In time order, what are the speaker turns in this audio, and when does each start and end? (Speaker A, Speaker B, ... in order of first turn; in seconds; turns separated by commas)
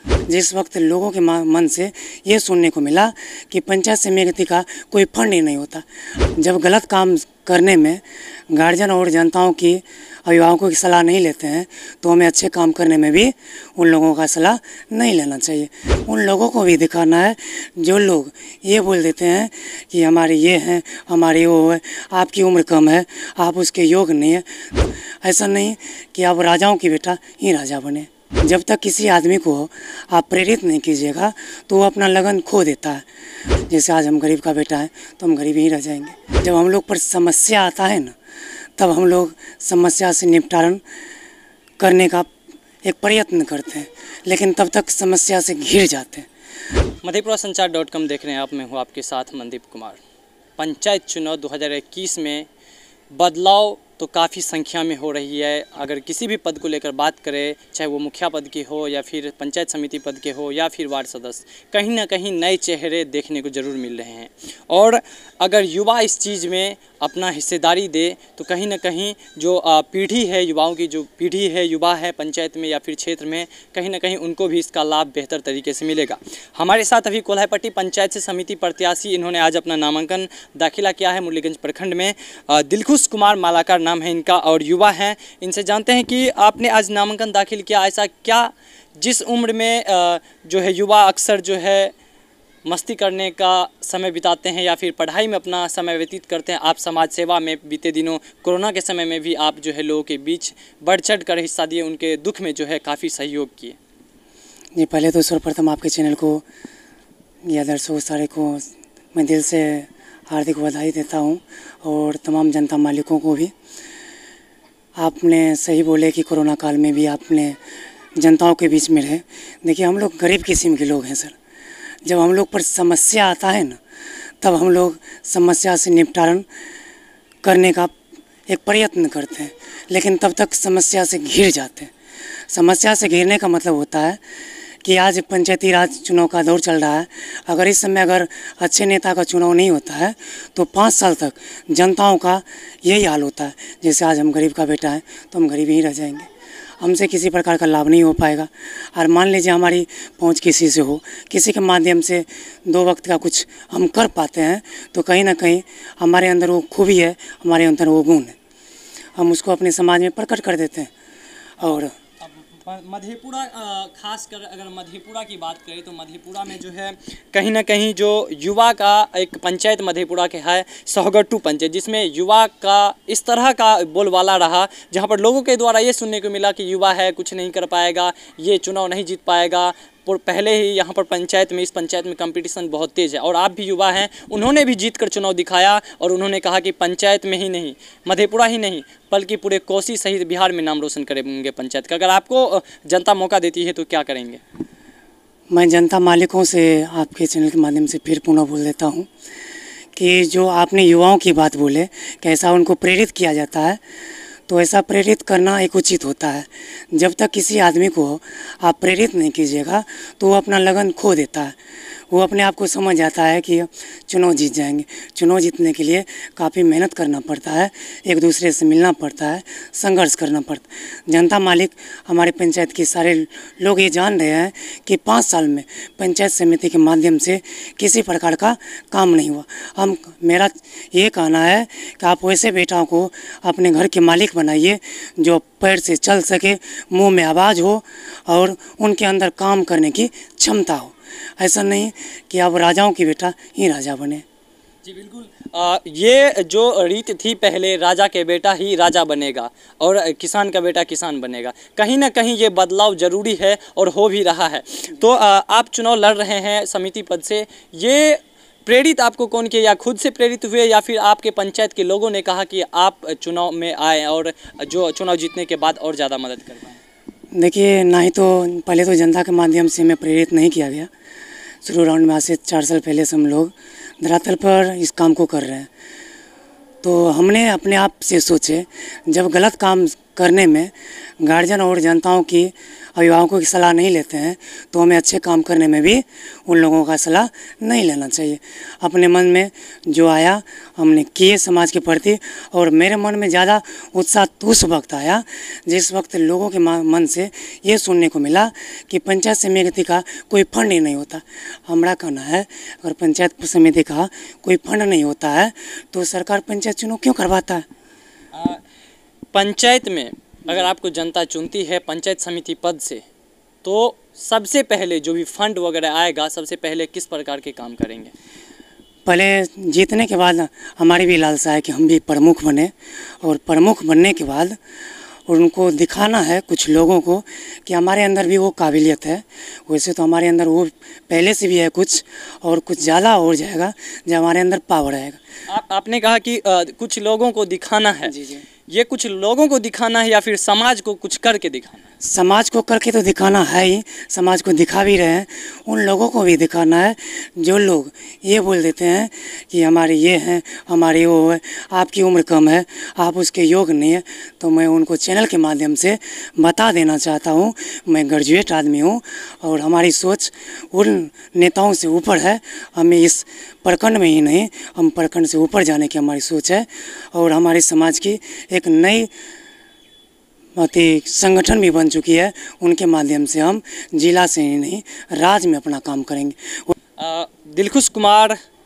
Speaker A: 0.3-33.0, Speaker A: 33.7-38.1, Speaker A: 38.8-40.8, Speaker A: 41.8-42.3, Speaker A: 42.8-46.3, Speaker B: 47.0-50.0, Speaker B: 50.6-52.5, Speaker B: 53.1-91.9, Speaker B: 92.6-103.8, Speaker A: 104.8-106.4, Speaker A: 107.5-113.5, Speaker A: 115.0-117.6, Speaker A: 118.2-121.3, Speaker A: 122.0-123.8, Speaker A: 124.4-126.5, Speaker A: 127.4-127.9, Speaker A: 128.5-131.9, Speaker A: 132.5-134.2, Speaker A: 134.8-146.3, Speaker A: 146.8-158.3, Speaker A: 159.2-160.9, Speaker A: 161.6-161.9, Speaker B: 162.2-194.4, Speaker A: 195.5-199.1, Speaker A: 199.9-203.8, Speaker A: 204.5-211.5, Speaker A: 212.1-244.2, Speaker B: 244.8-266.8, Speaker A: 267.3-270.9, Speaker A: 271.6-275.7, Speaker A: 276.8-307.6, Speaker B: 308.3-308.6, Speaker B: 309.3-313.0, Speaker B: 313.6-318.1, Speaker A: 319.1-324.6, Speaker A: 325.3-335.2, Speaker B: 335.5-338.1, Speaker A: 338.1-338.4, Speaker B: 338.7-341.8, Speaker A: 342.0-369.1, Speaker A: 370.6-376.7, Speaker B: 377.0-378.4